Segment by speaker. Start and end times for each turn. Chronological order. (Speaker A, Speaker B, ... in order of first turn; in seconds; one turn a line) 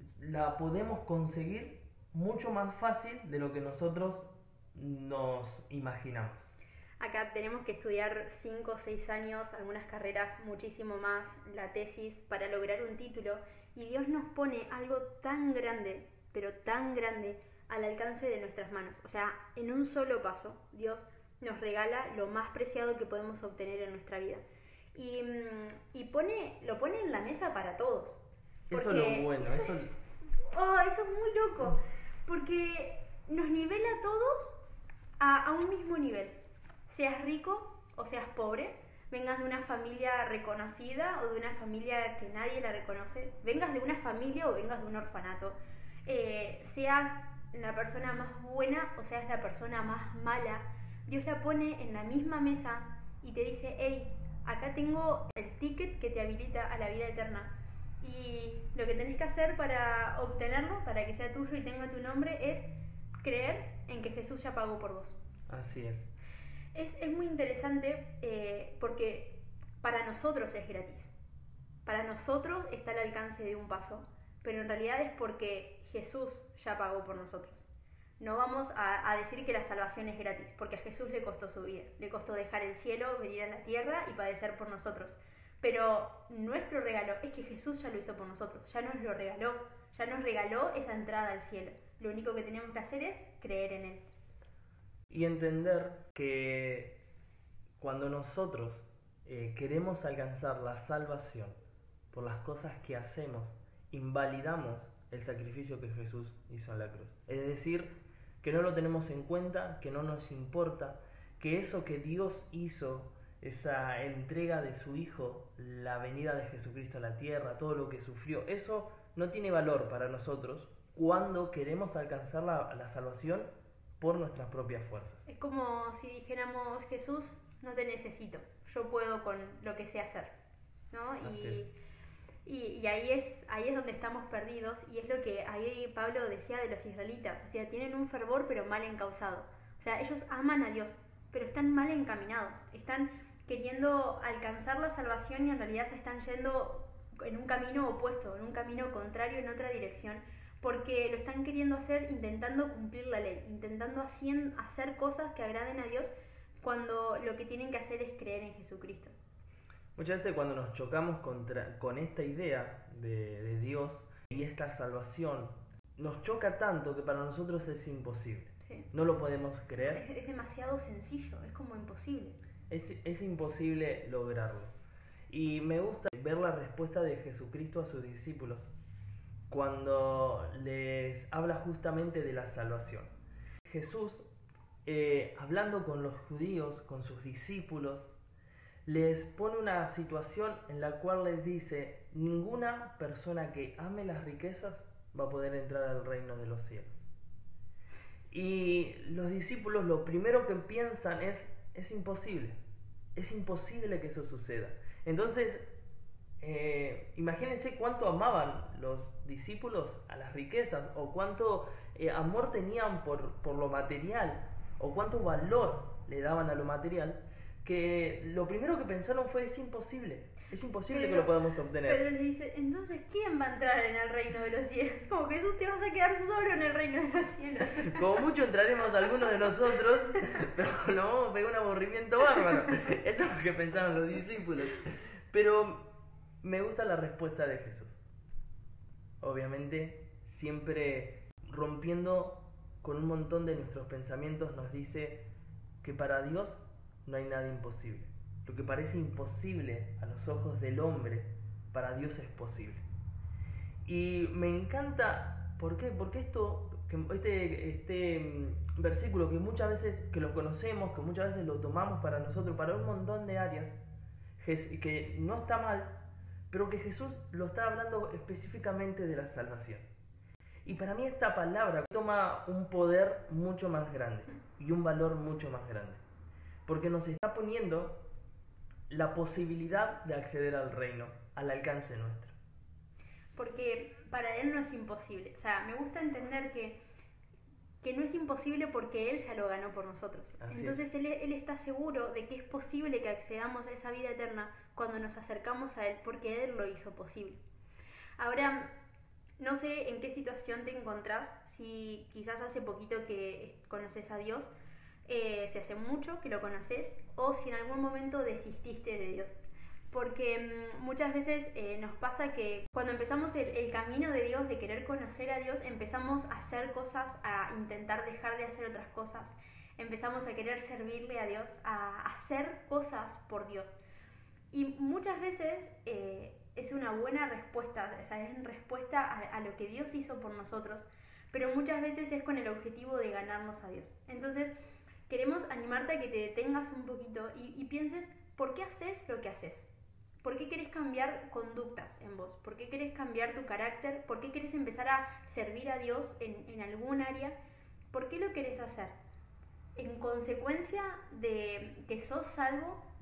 Speaker A: 0.2-6.5
Speaker B: 7.0-34.6
Speaker A: 28.7-29.9
Speaker B: 35.2-36.4
Speaker B: 36.9-62.7
Speaker B: 63.2-65.2
Speaker A: 65.5-66.1
Speaker B: 66.7-71.1
Speaker B: 71.8-77.7
Speaker B: 78.2-94.0
Speaker A: 95.1-97.0
Speaker A: 97.8-101.6
Speaker A: 102.1-125.2
Speaker B: 125.3-130.3
Speaker B: 130.9-131.7
Speaker A: 131.2-131.7
Speaker B: 132.4-159.1
Speaker A: 159.9-170.0
Speaker B: 169.8-172.4
Speaker A: 172.7-174.7
Speaker A: 175.3-178.7
Speaker A: 179.5-183.1
Speaker A: 183.6-184.3
Speaker A: 184.8-188.1
Speaker A: 188.8-197.1
Speaker A: 198.3-202.6
Speaker A: 203.1-205.7
Speaker A: 206.4-222.0
Speaker B: 220.9-221.3
Speaker B: 221.8-228.0
Speaker A: 227.8-238.0
Speaker A: 239.2-245.2
Speaker A: 245.8-252.8
Speaker A: 253.8-263.8
Speaker A: 264.4-269.9
Speaker A: 270.6-276.0
Speaker A: 276.6-278.0
Speaker A: 278.9-282.3
Speaker B: 283.3-286.8
Speaker B: 287.8-297.4
Speaker A: 290.4-290.8
Speaker B: 298.2-298.7
Speaker B: 299.4-304.5
Speaker B: 305.1-323.7
Speaker B: 324.5-334.5
Speaker B: 335.1-339.7
Speaker B: 340.2-347.4
Speaker B: 347.9-349.0
Speaker B: 349.8-352.8